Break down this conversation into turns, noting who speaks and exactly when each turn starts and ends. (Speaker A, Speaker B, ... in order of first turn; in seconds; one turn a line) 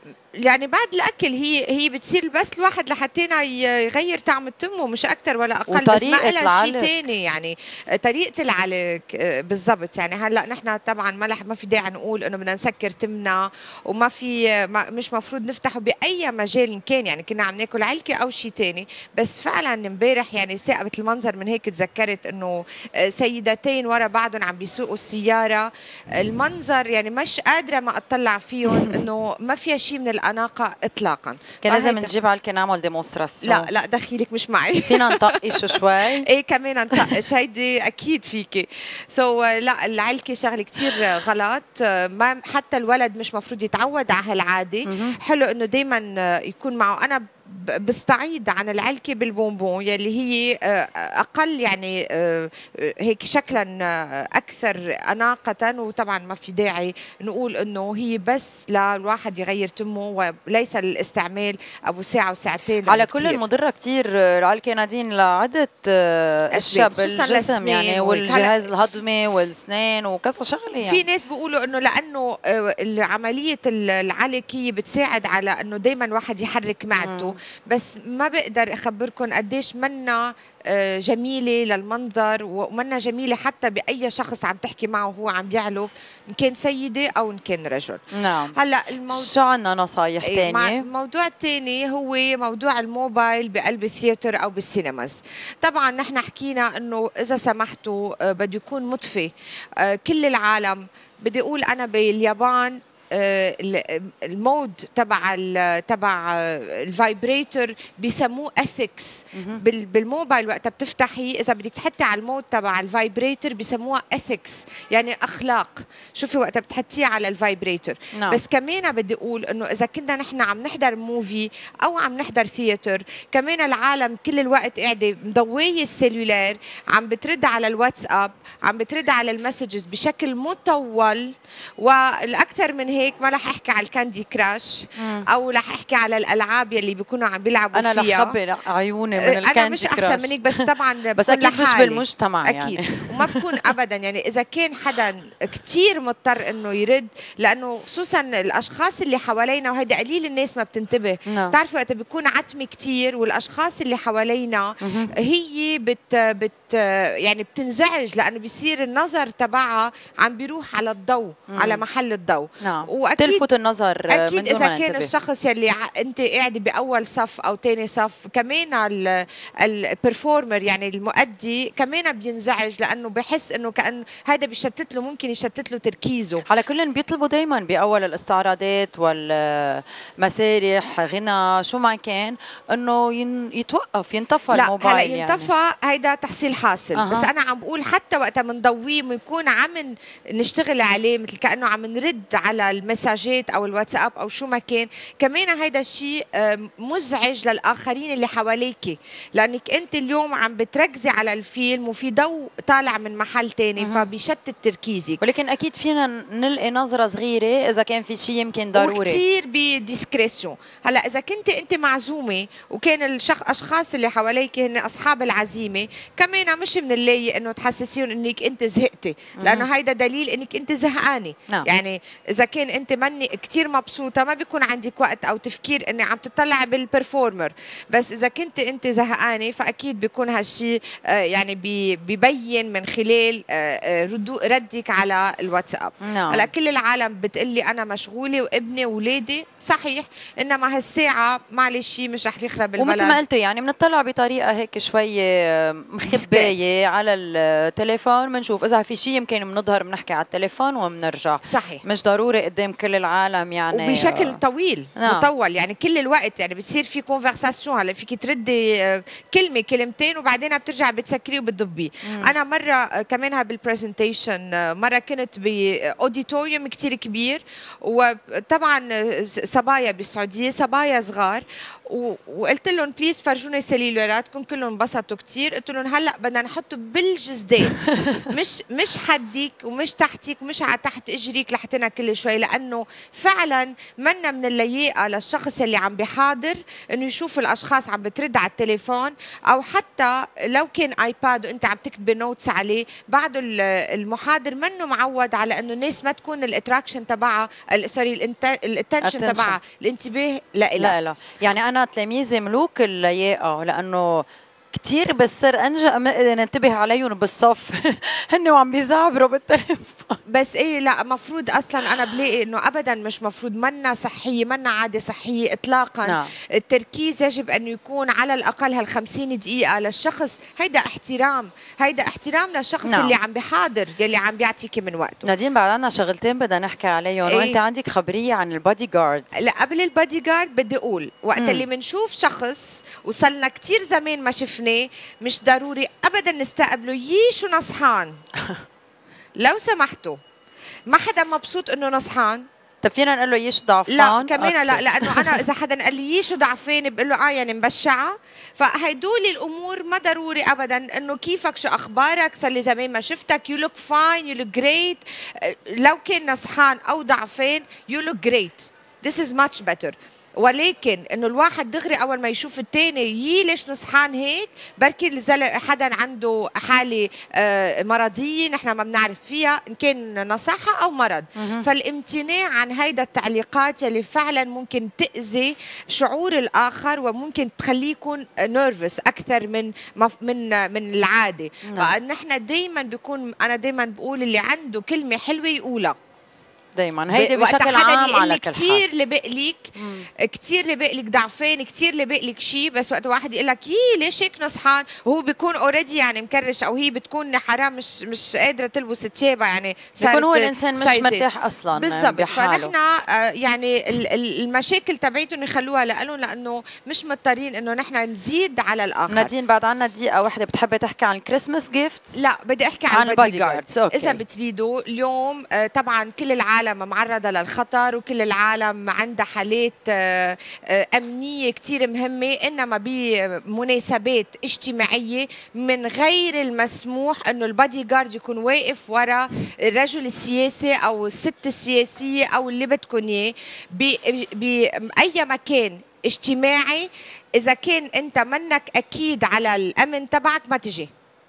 Speaker A: 0.4-32.1
Speaker B: 5.7-7.0
Speaker B: 28.7-29.0
Speaker B: 31.6-33.7
Speaker A: 33.4-63.4
Speaker B: 34.8-36.3
Speaker B: 44.9-45.2
Speaker B: 62.9-71.0
Speaker A: 66.5-68.6
Speaker A: 70.8-88.0
Speaker B: 77.0-77.3
Speaker B: 88.1-88.5
Speaker A: 88.5-89.3
Speaker B: 89.1-90.8
Speaker A: 90.2-131.3
Speaker B: 109.3-109.6
Speaker B: 118.1-118.4
Speaker A: 131.8-138.3
Speaker B: 135.0-135.2
Speaker B: 137.7-143.6
Speaker A: 139.2-163.5
Speaker B: 151.3-151.6
Speaker B: 154.8-155.1
Speaker B: 161.5-161.8
Speaker B: 162.6-165.1
Speaker A: 164.1-176.4
Speaker B: 176.5-185.5
Speaker A: 184.5-205.2
Speaker B: 186.9-187.3
Speaker B: 203.8-204.1
Speaker B: 205.2-209.2
Speaker A: 208.7-243.2
Speaker B: 219.4-219.7
Speaker B: 236.0-236.5
Speaker B: 242.8-254.4
Speaker A: 246.1-246.6
Speaker A: 251.4-251.8
Speaker A: 253.7-300.9
Speaker B: 255.0-255.3
Speaker B: 262.0-262.3
Speaker B: 277.8-278.2
Speaker B: 299.0-299.6
Speaker B: 300.8-310.2
Speaker A: 310.3-325.3
Speaker B: 316.0-316.3
Speaker B: 322.8-323.2
Speaker B: 325.2-329.4
Speaker A: 327.3-327.6
Speaker A: 329.4-338.1
Speaker B: 331.4-331.6
Speaker A: 339.4-340.2
Speaker A: 340.9-342.4
Speaker B: 342.8-345.4
Speaker A: 343.9-385.9
Speaker B: 371.4-371.6
Speaker B: 381.6-381.9
Speaker B: 386.8-388.8
Speaker A: 387.1-409.3
Speaker B: 389.8-390.1
Speaker B: 400.0-402.7
Speaker B: 409.1-412.2
Speaker A: 412.2-440.9
Speaker B: 412.9-414.2